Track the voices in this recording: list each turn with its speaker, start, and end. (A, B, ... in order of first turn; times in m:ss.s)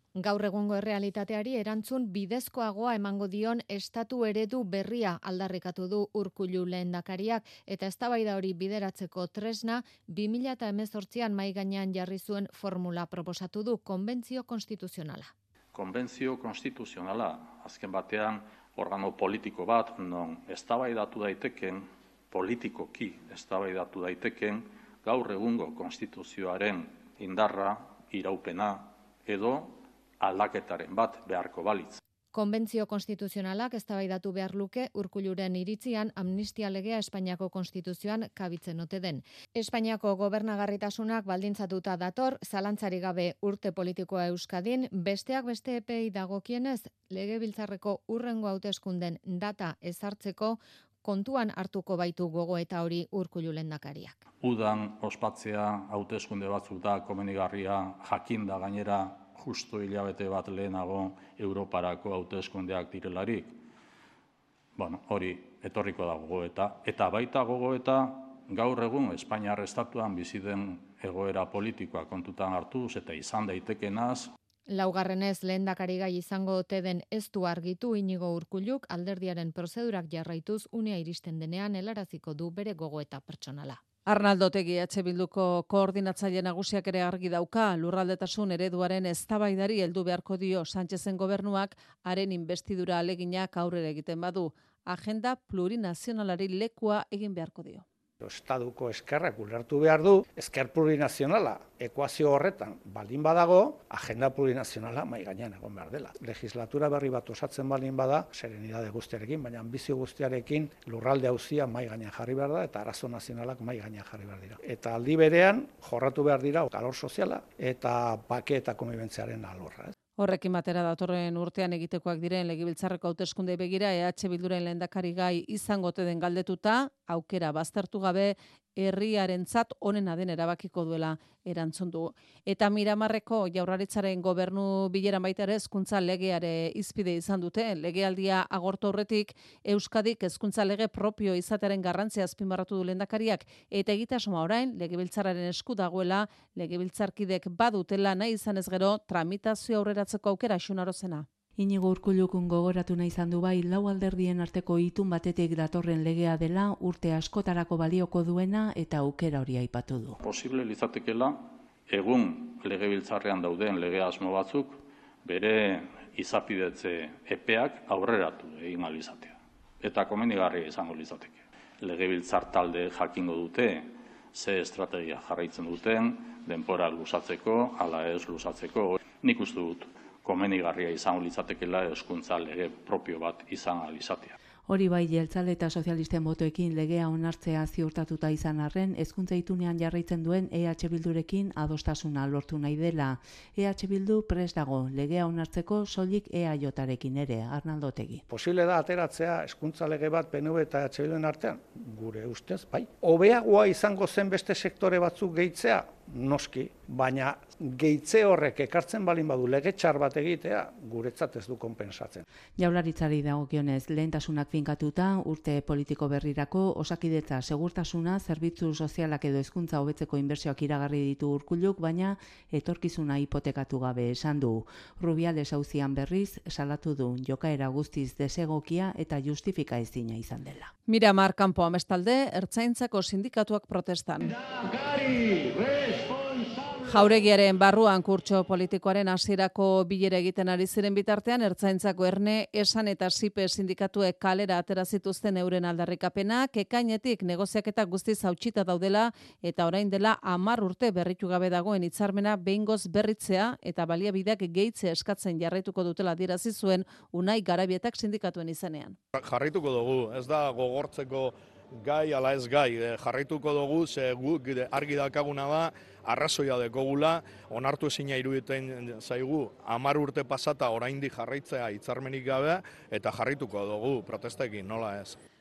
0:00.2-0:15.3 A
0:15.7-0:32.0 B
0:32.3-0:54.2 A
0:54.4-1:03.6 B
1:04.8-1:14.3 B
1:14.7-1:23.8 A
1:24.1-1:37.8 C
1:38.2-1:59.9 D
2:00.2-2:31.3 C
2:31.6-2:40.2 E
2:40.2-3:04.4 B
3:04.7-3:18.2 E
3:18.3-3:32.2 D
3:32.6-3:50.7 E
3:50.9-3:54.3 C
3:56.8-4:19.0 C
4:19.2-4:35.2 F